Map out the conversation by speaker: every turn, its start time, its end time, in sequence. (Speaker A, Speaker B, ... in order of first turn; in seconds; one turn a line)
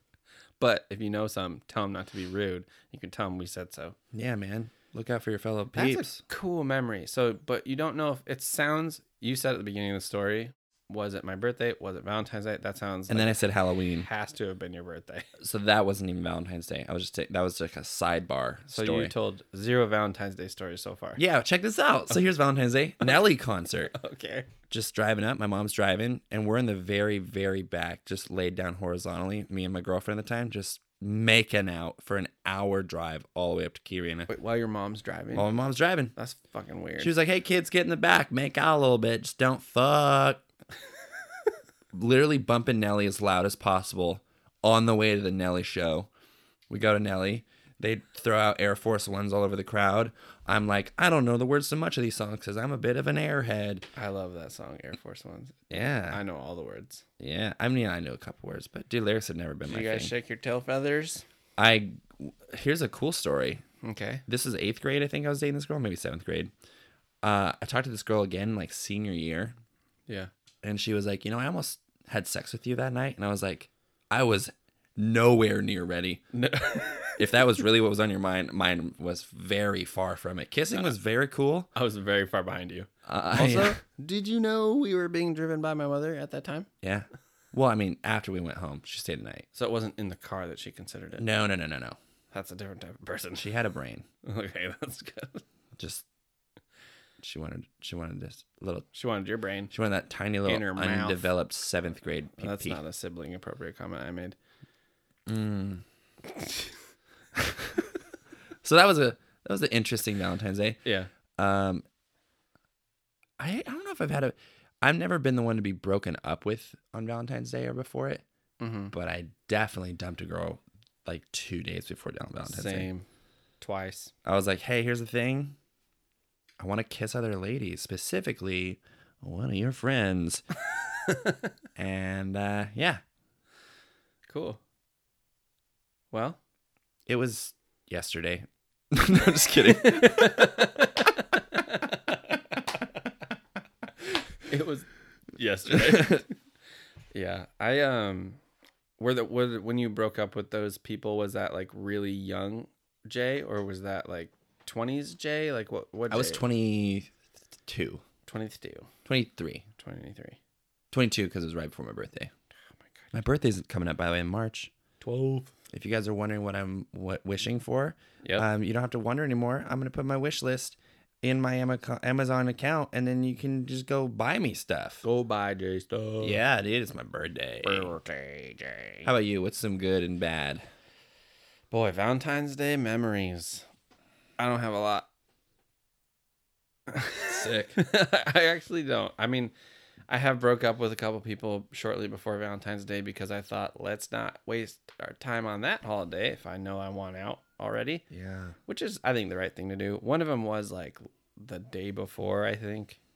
Speaker A: 0.6-4.0
Speaker B: 4.1-6.2
Speaker A: 5.7-13.4
Speaker B: 13.1-14.1
Speaker A: 14.0-15.3
Speaker B: 15.4-19.1
Speaker A: 18.7-21.2
Speaker B: 21.2-23.9
Speaker A: 23.9-24.5
Speaker B: 24.7-34.3
Speaker A: 34.3-35.5
Speaker B: 35.3-36.1
Speaker A: 36.1-37.1
Speaker B: 37.0-40.4
Speaker B: 41.9-46.1
Speaker B: 46.7-53.9
Speaker A: 54.0-57.0
Speaker B: 55.7-56.2
Speaker B: 57.2-60.1
Speaker A: 59.7-61.2
Speaker B: 61.6-63.6
Speaker A: 63.8-64.2
Speaker B: 64.2-66.5
Speaker B: 67.2-69.5
Speaker B: 70.6-76.2
Speaker A: 76.3-77.2
Speaker B: 77.2-81.7
Speaker A: 81.7-86.7
Speaker B: 83.0-83.8
Speaker B: 86.8-89.5
Speaker A: 89.5-91.2
Speaker B: 91.2-92.0
Speaker A: 92.3-93.5
Speaker B: 93.4-94.1
Speaker A: 94.2-95.4
Speaker B: 95.8-96.0
Speaker B: 97.2-98.9
Speaker A: 98.9-99.7
Speaker B: 99.7-102.8
Speaker A: 100.4-101.3
Speaker A: 102.4-104.3
Speaker B: 105.2-105.8
Speaker B: 107.3-107.9
Speaker B: 108.6-110.8
Speaker A: 110.8-111.1
Speaker B: 111.4-111.8
Speaker B: 113.4-118.2
Speaker A: 118.6-118.9
Speaker B: 118.9-122.9
Speaker A: 122.4-123.0
Speaker A: 123.6-124.1
Speaker B: 124.2-125.5
Speaker B: 126.6-130.4
Speaker A: 131.1-131.4
Speaker B: 131.8-133.0
Speaker A: 134.3-134.6
Speaker A: 136.1-136.4
Speaker B: 137.1-140.7
Speaker A: 139.6-142.3
Speaker A: 144.4-146.3
Speaker B: 145.8-146.2
Speaker A: 147.1-148.4
Speaker A: 149.0-156.4
Speaker B: 156.1-157.1
Speaker B: 157.6-158.0
Speaker A: 158.2-158.9
Speaker B: 159.0-159.6
Speaker A: 159.8-160.4
Speaker B: 160.9-162.3
Speaker B: 163.1-164.7
Speaker A: 165.0-165.5
Speaker B: 165.7-175.0
Speaker A: 175.0-176.4
Speaker B: 176.2-177.9
Speaker A: 177.6-179.1
Speaker B: 179.0-180.6
Speaker A: 181.7-183.7
Speaker A: 184.4-185.1
Speaker A: 186.9-189.5
Speaker B: 187.3-187.8
Speaker A: 190.1-198.0
Speaker B: 198.1-198.6
Speaker A: 198.7-203.0